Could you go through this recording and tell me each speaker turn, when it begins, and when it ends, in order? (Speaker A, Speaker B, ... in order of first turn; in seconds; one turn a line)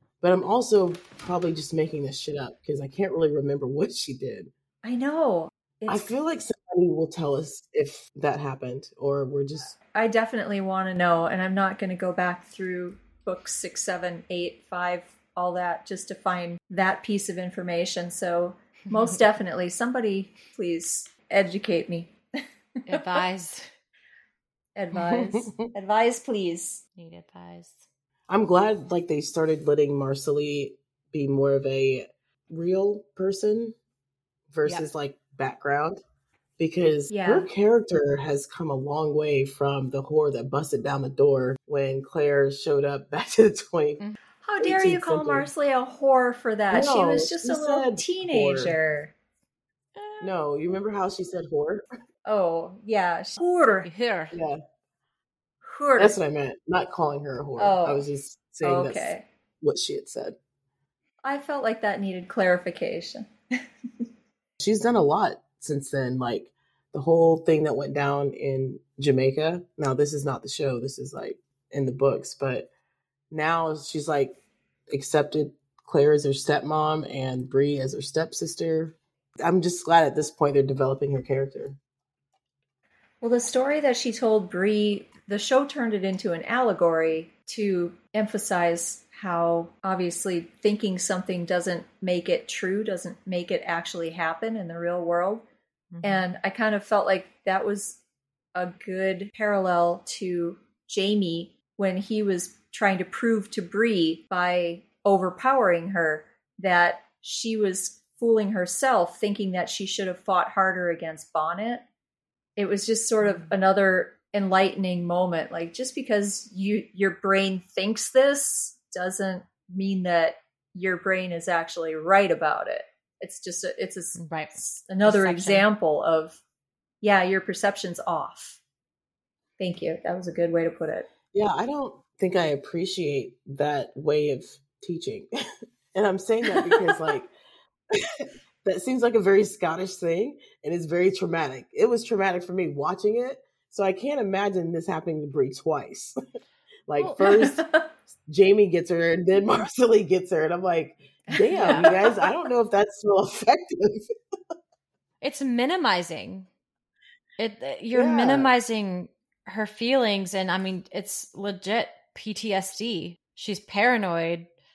Speaker A: 0.2-4.5
Speaker B: 4.8-6.1
Speaker A: 5.9-9.8
Speaker B: 9.9-22.2
Speaker C: 22.9-23.7
Speaker B: 22.9-23.2
Speaker B: 24.8-26.8
Speaker A: 24.9-25.7
Speaker C: 27.0-27.8
Speaker A: 28.3-33.8
Speaker A: 34.5-36.0
Speaker A: 36.6-44.0
Speaker B: 37.1-37.5
Speaker B: 44.4-49.1
Speaker A: 44.6-45.5
Speaker A: 46.7-48.8
Speaker C: 50.0-50.3
Speaker A: 50.2-51.9
Speaker B: 52.3-53.9
Speaker C: 53.9-54.4
Speaker A: 54.3-54.6
Speaker B: 55.6-56.2
Speaker A: 56.0-60.4
Speaker B: 57.6-58.1
Speaker B: 58.6-59.2
Speaker B: 61.2-63.6
Speaker A: 64.6-72.7
Speaker A: 73.3-74.4
Speaker A: 74.9-81.8
Speaker B: 83.2-95.5
Speaker C: 95.9-96.2
Speaker B: 96.0-98.0
Speaker B: 98.5-111.8
Speaker B: 112.6-126.4
Speaker C: 113.2-113.5
Speaker C: 124.2-125.7
Speaker B: 127.0-128.6
Speaker B: 129.6-131.1
Speaker A: 131.3-135.3
Speaker A: 135.9-137.3
Speaker A: 137.9-146.2
Speaker A: 146.9-147.7
Speaker B: 147.2-147.9
Speaker A: 148.3-154.1
Speaker B: 151.3-152.3
Speaker C: 151.5-151.9
Speaker C: 155.2-156.5
Speaker C: 157.4-164.5
Speaker A: 157.9-158.5